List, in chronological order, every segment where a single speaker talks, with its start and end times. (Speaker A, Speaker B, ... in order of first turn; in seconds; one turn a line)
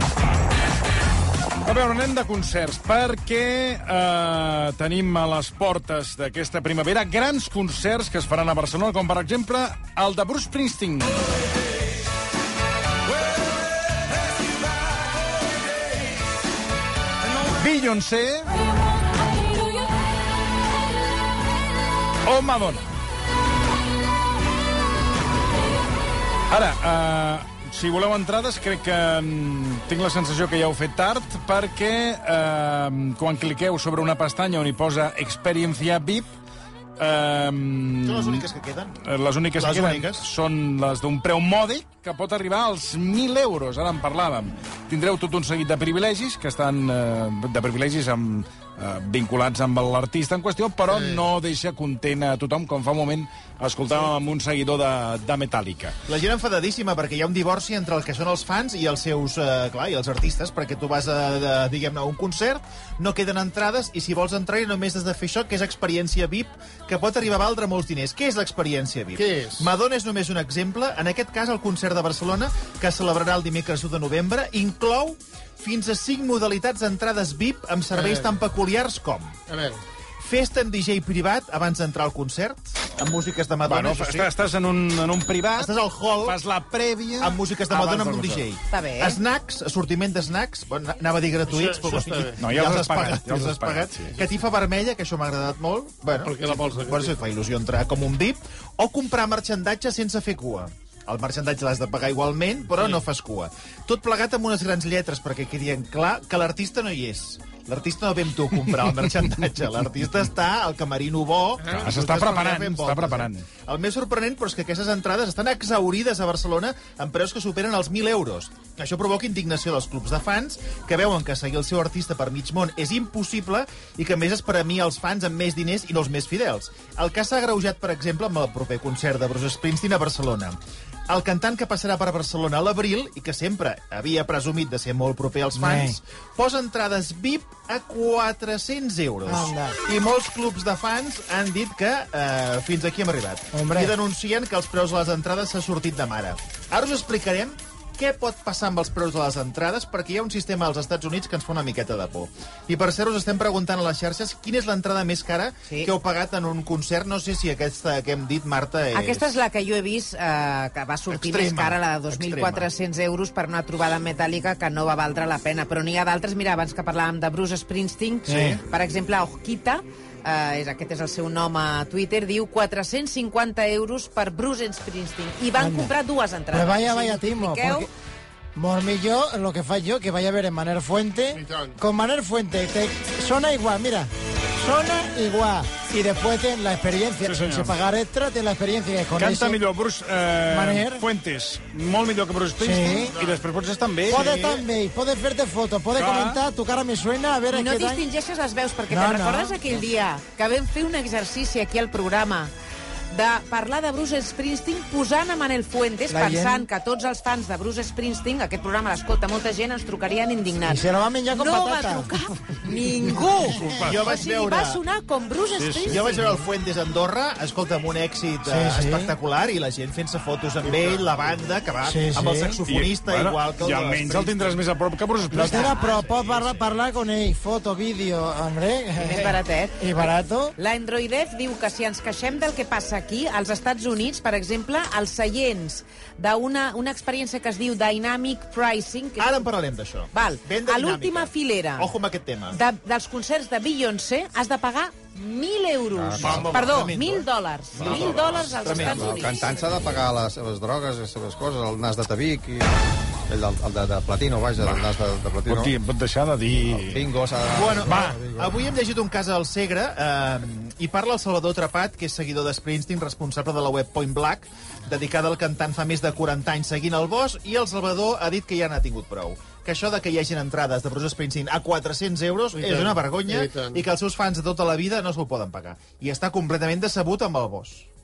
Speaker A: 1.6-11.2
Speaker A: 17.6-18.5
Speaker A: 22.2-22.9
Speaker A: 26.5-36.3
Speaker A: 37.0-38.4
Speaker B: 38.0-39.0
Speaker A: 39.0-56.0
Speaker B: 39.5-40.2
Speaker B: 56.0-79.3
Speaker C: 69.1-69.7
Speaker C: 77.9-78.3
Speaker C: 79.5-79.8
Speaker B: 80.2-84.3
Speaker A: 83.7-88.4
Speaker B: 85.5-86.4
Speaker B: 87.2-159.3
Speaker D: 88.7-89.2
Speaker C: 91.5-92.4
Speaker A: 92.4-94.1
Speaker C: 96.2-97.1
Speaker A: 111.7-113.4
Speaker E: 135.6-136.0
Speaker E: 139.2-139.8
Speaker E: 143.5-143.9
Speaker D: 158.9-177.9
Speaker B: 161.1-162.7
Speaker E: 168.3-168.6
Speaker E: 175.6-175.9
Speaker E: 176.5-177.9
Speaker E: 178.5-189.6
Speaker C: 181.3-181.7
Speaker A: 187.2-187.8
Speaker A: 189.2-194.6
Speaker E: 190.5-191.1
Speaker E: 192.6-193.2
Speaker E: 194.1-198.0
Speaker A: 195.9-196.4
Speaker D: 197.5-202.5
Speaker E: 198.9-199.6
Speaker D: 203.1-216.1
Speaker E: 206.1-206.6
Speaker E: 210.6-213.2
Speaker A: 213.6-214.0
Speaker B: 213.8-214.8
Speaker B: 215.8-224.6
Speaker E: 218.4-219.1
Speaker E: 221.8-222.6
Speaker A: 222.7-226.6
Speaker E: 225.3-230.5
Speaker D: 225.3-226.0
Speaker D: 228.9-239.4
Speaker B: 239.2-242.6
Speaker D: 240.1-241.9
Speaker D: 242.5-249.7
Speaker F: 245.9-246.5
Speaker B: 246.2-249.3
Speaker F: 247.8-252.7
Speaker F: 253.3-255.7
Speaker A: 255.4-257.0
Speaker F: 256.7-258.5
Speaker B: 257.5-277.9
Speaker A: 257.9-258.2
Speaker C: 272.5-273.8